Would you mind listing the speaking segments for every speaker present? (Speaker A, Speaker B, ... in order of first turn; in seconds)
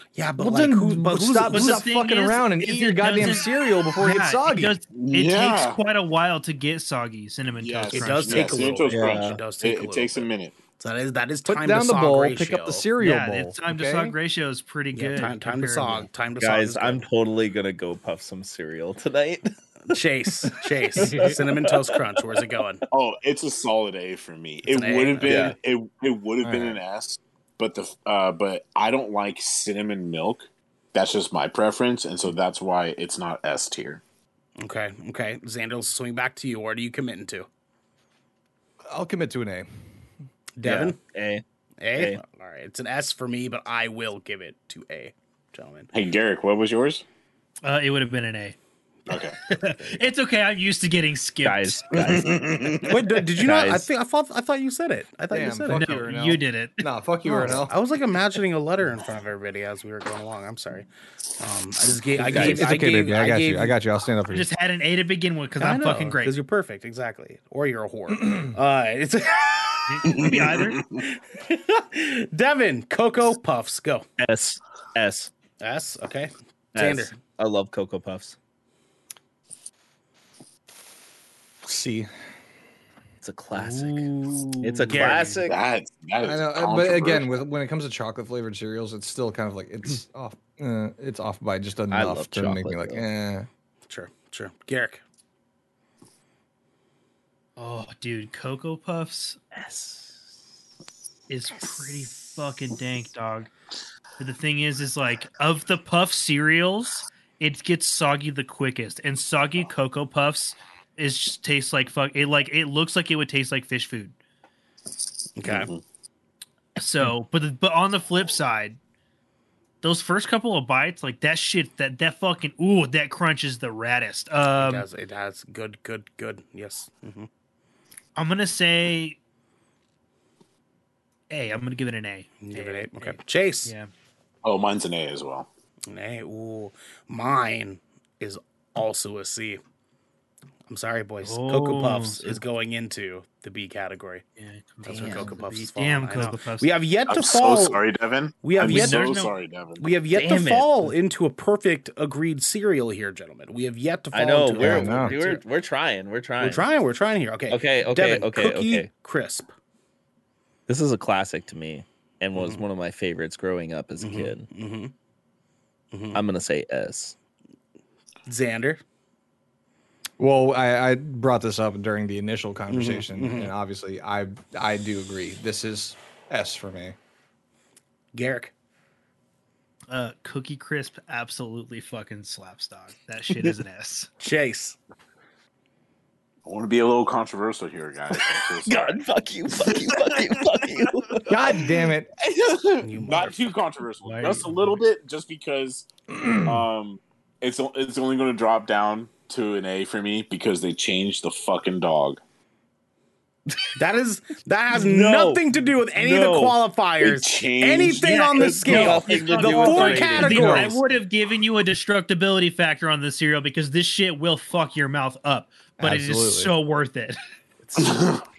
Speaker A: 0.1-1.9, 7.9-12.8, 14.9-17.1, 19.9-22.8, 24.6-25.6, 34.6-37.5, 40.6-41.0, 41.8-45.9, 52.9-56.0, 57.2-60.9, 61.4-63.8, 65.6-70.3, 71.0-74.1, 75.6-77.1, 84.9-85.4, 93.9-95.0, 115.4-115.7, 124.6-127.3, 132.4-133.7, 135.9-139.6, 140.7-144.2, 144.8-147.8, 148.4-149.2, 149.8-155.4, 156.4-159.5, 162.4-162.6, 164.0-164.9, 165.9-166.2, 168.3-168.8, 172.7-173.5, 178.1-178.5, 184.2-184.8, 192.8-193.5, 203.8-210.8
Speaker B: 0.4-4.8, 11.5-14.2, 26.4-26.8, 38.9-39.7, 55.3-57.7, 62.2-64.5, 81.6-82.1, 86.2-93.5, 154.6-155.2, 170.2-177.0, 191.3-192.1, 196.1-196.6, 210.3-210.7, 215.8-216.5
Speaker C: 1.5-8.6, 13.0-16.1, 47.6-48.6, 49.5-51.9, 55.7-56.9, 64.3-66.3, 69.9-70.8, 83.5-85.3, 97.6-99.4, 101.3-103.5, 104.2-114.1, 116.8-118.8, 119.8-124.9, 128.2-129.2, 131.3-133.9, 141.2-142.4, 144.4-146.7, 148.6-149.3, 179.9-184.1, 194.1-194.8, 208.0-217.2
Speaker D: 4.9-5.8, 7.6-10.6, 22.9-34.0, 45.9-47.0, 49.1-49.4, 51.9-52.8, 70.1-70.9, 85.4-87.4, 115.4-115.8, 134.4-135.5, 147.1-149.9, 186.4-189.0, 192.2-195.9, 196.4-202.2, 207.0-208.2, 217.8-218.2
Speaker E: 8.9-9.4, 16.4-19.9, 20.5-21.9, 25.2-25.6, 40.6-41.4, 42.0-42.2, 51.4-53.9, 62.2-62.8, 74.2-75.3, 76.8-78.4, 83.2-85.6, 91.9-93.0, 99.5-100.2, 144.9-145.3, 150.1-150.9, 154.1-156.7, 157.5-158.9, 160.7-164.5, 166.1-167.1, 188.6-191.3, 204.7-206.6, 208.3-210.7